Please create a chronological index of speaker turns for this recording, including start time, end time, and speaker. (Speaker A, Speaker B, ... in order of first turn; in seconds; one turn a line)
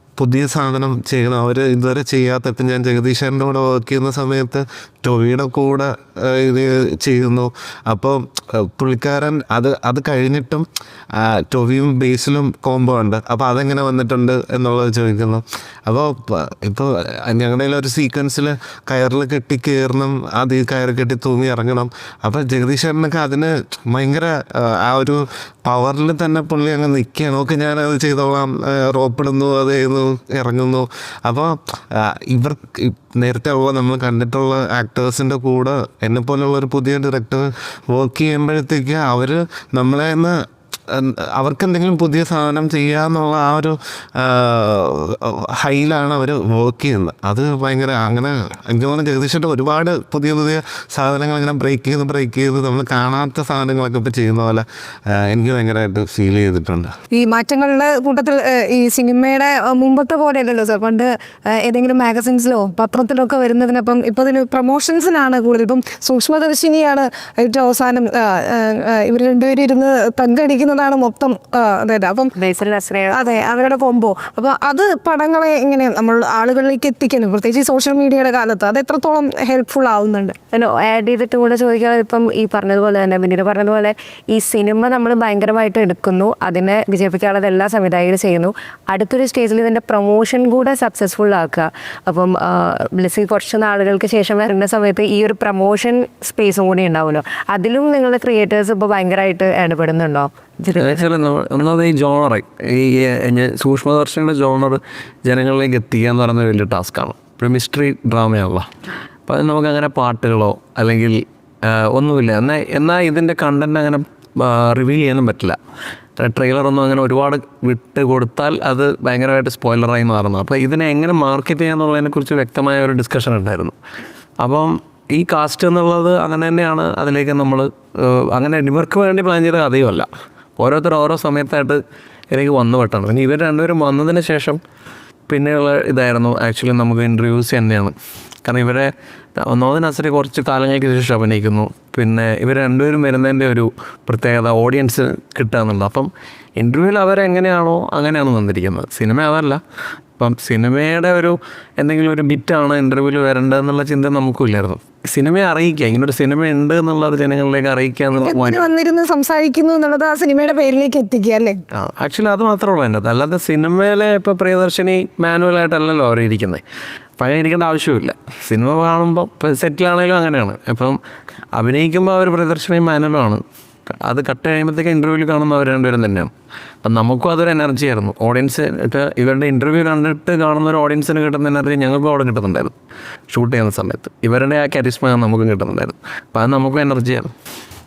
Speaker A: 0.2-40.4
Speaker A: 40.9-56.9
Speaker B: 57.1-72.3
Speaker C: 72.3-73.2
Speaker B: 73.1-80.3
Speaker C: 80.5-100.3
Speaker D: 100.7-108.7
Speaker D: 109.3-115.6
Speaker D: 116.2-123.7
Speaker D: 124.4-130.1
Speaker D: 130.6-131.8
Speaker D: 132.3-134.6
Speaker D: 135.3-149.6
Speaker D: 150.2-158.7
Speaker B: 158.2-161.6
Speaker D: 161.7-166.6
Speaker D: 167.2-171.0
Speaker D: 171.5-176.3
Speaker D: 176.8-182.7
Speaker D: 183.3-187.3